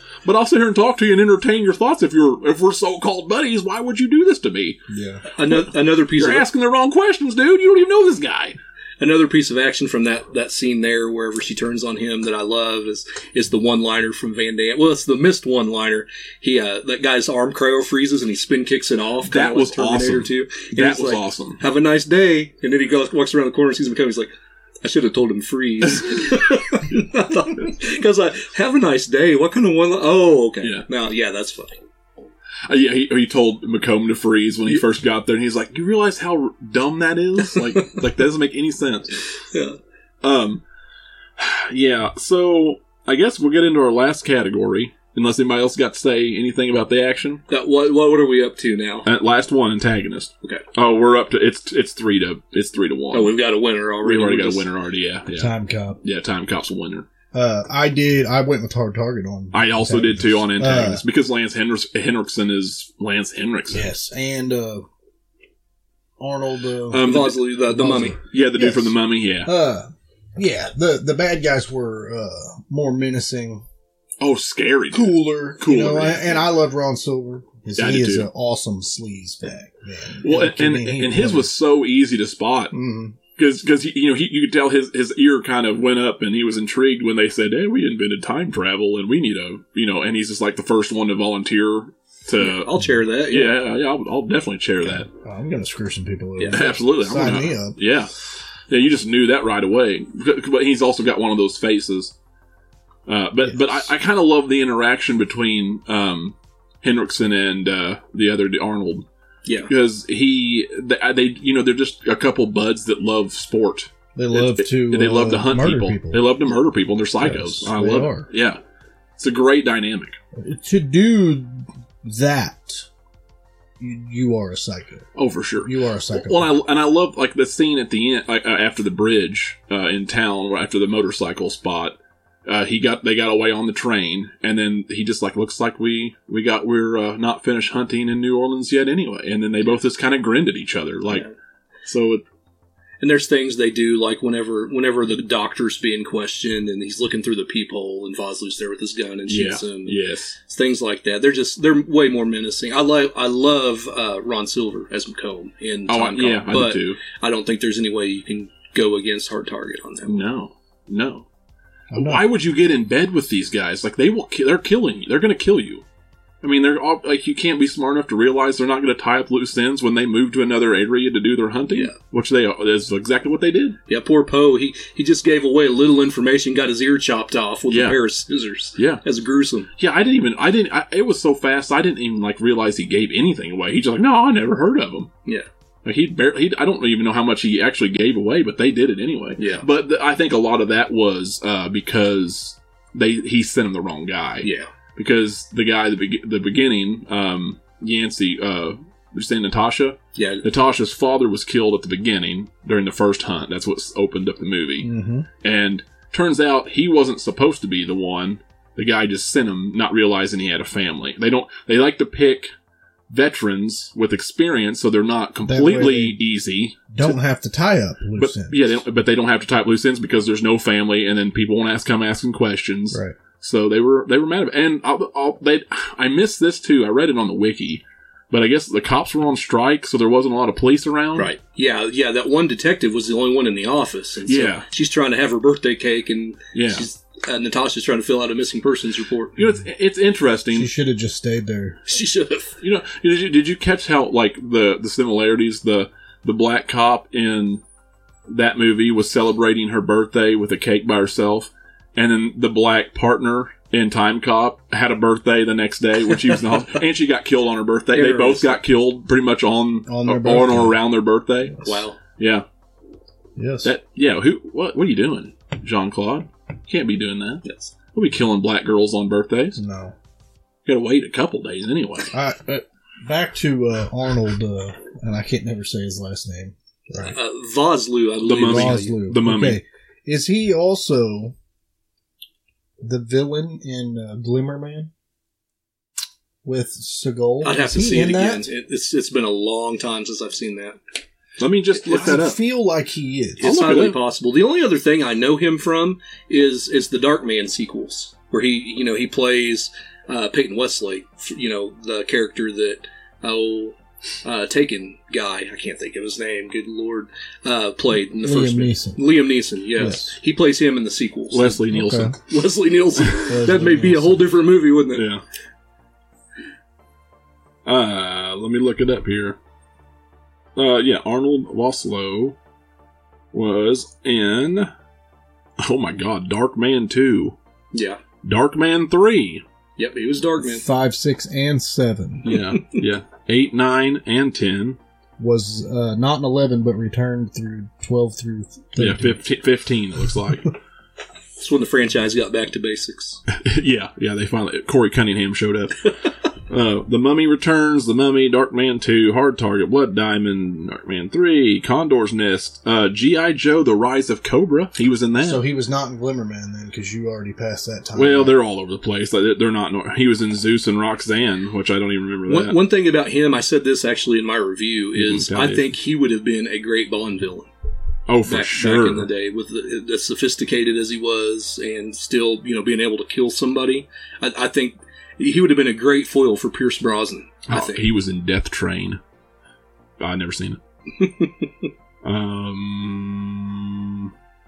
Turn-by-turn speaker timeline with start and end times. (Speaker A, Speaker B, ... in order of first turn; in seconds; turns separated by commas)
Speaker A: 0.2-4.8, Speaker B: 4.9-5.2, Speaker C: 5.4-6.5, Speaker A: 6.2-8.6, Speaker C: 9.0-31.8, Speaker A: 19.2-21.6, Speaker A: 32.7-39.2, Speaker C: 37.5-37.9, Speaker C: 39.5-39.8, Speaker A: 40.2-40.6, Speaker A: 41.4-47.4, Speaker C: 47.5-49.1, Speaker A: 49.0-53.4, Speaker C: 53.1-54.7, Speaker A: 54.0-57.1, Speaker B: 55.3-56.0, Speaker B: 57.3-61.0, Speaker A: 59.5-63.9, Speaker B: 63.7-64.9, Speaker B: 66.2-67.1, Speaker A: 66.9-67.5, Speaker C: 67.0-68.2, Speaker B: 67.7-73.7, Speaker A: 68.2-69.5, Speaker A: 74.2-76.5, Speaker B: 74.9-81.5, Speaker A: 77.8-78.3, Speaker A: 80.2-82.8, Speaker B: 82.7-83.2, Speaker A: 83.4-95.1, Speaker C: 92.4-93.6, Speaker B: 94.8-97.8, Speaker A: 96.5-102.1, Speaker A: 103.1-109.1, Speaker B: 103.4-103.9, Speaker C: 109.5-109.7, Speaker A: 109.7-118.6, Speaker B: 114.2-116.3, Speaker B: 117.2-118.3, Speaker A: 119.2-120.2, Speaker B: 120.3-122.9, Speaker B: 123.8-125.1, Speaker A: 125.2-141.3, Speaker B: 125.6-126.5, Speaker A: 141.8-142.2, Speaker C: 143.0-150.0, Speaker A: 149.3-150.4, Speaker C: 150.5-160.2, Speaker A: 155.9-157.0, Speaker A: 160.1-161.3, Speaker B: 161.9-162.2, Speaker A: 161.9-165.8, Speaker A: 166.4-173.8, Speaker C: 171.7-171.9, Speaker C: 173.9-179.7, Speaker A: 177.7-178.0, Speaker A: 178.8-179.0, Speaker A: 179.8-185.1, Speaker A: 185.8-204.9, Speaker C: 189.4-189.7, Speaker C: 194.4-194.7, Speaker C: 200.2-200.4, Speaker B: 204.8-205.3, Speaker A: 205.4-212.5, Speaker A: 213.1-217.2, Speaker B: 215.4-216.2, Speaker B: 216.9-218.8, Speaker A: 218.2-231.3, Speaker B: 222.9-223.2, Speaker C: 231.2-239.4, Speaker A: 234.3-234.7, Speaker A: 236.5-236.9, Speaker A: 239.4-240.7, Speaker B: 240.5-241.8, Speaker C: 241.9-242.6, Speaker A: 242.6-247.6, Speaker A: 248.3-262.4, Speaker C: 257.9-258.6, Speaker B: 259.9-260.8, Speaker C: 261.6-262.0, Speaker B: 263.4-263.7, Speaker A: 263.6-269.6, Speaker C: 267.4-267.7, Speaker B: 269.6-269.9, Speaker A: 270.7-272.1, Speaker B: 272.1-277.2, Speaker C: 277.0-278.9, Speaker A: 278.2-279.6, Speaker B: 278.4-281.4, Speaker B: 282.8-284.9, Speaker B: 286.4-288.5, Speaker C: 287.4-290.8, Speaker A: 291.4-292.4, Speaker B: 291.9-293.5, Speaker C: 293.4-311.6, Speaker A: 293.4-294.0, Speaker B: 308.2-309.0, Speaker B: 309.8-310.1, Speaker A: 311.3-312.2, Speaker B: 311.7-312.1, Speaker C: 312.2-315.1, Speaker B: 313.3-314.3, Speaker A: 314.9-315.2, Speaker A: 317.7-319.4, Speaker A: 320.6-322.4, Speaker A: 323.3-324.7, Speaker A: 325.6-327.4, Speaker C: 327.7-328.0, Speaker A: 328.2-329.4, Speaker C: 329.8-330.7, Speaker B: 330.4-332.3, Speaker A: 332.2-334.8, Speaker B: 335.2-339.2, Speaker A: 338.8-340.6, Speaker C: 341.4-343.2, Speaker A: 343.3-355.5, Speaker B: 355.2-358.4, Speaker A: 357.9-362.6, Speaker C: 362.3-367.5, Speaker A: 364.9-365.8, Speaker A: 368.1-369.1, Speaker C: 368.2-377.8, Speaker A: 377.5-379.0, Speaker A: 380.0-380.6, Speaker C: 381.0-381.7, Speaker A: 382.0-384.1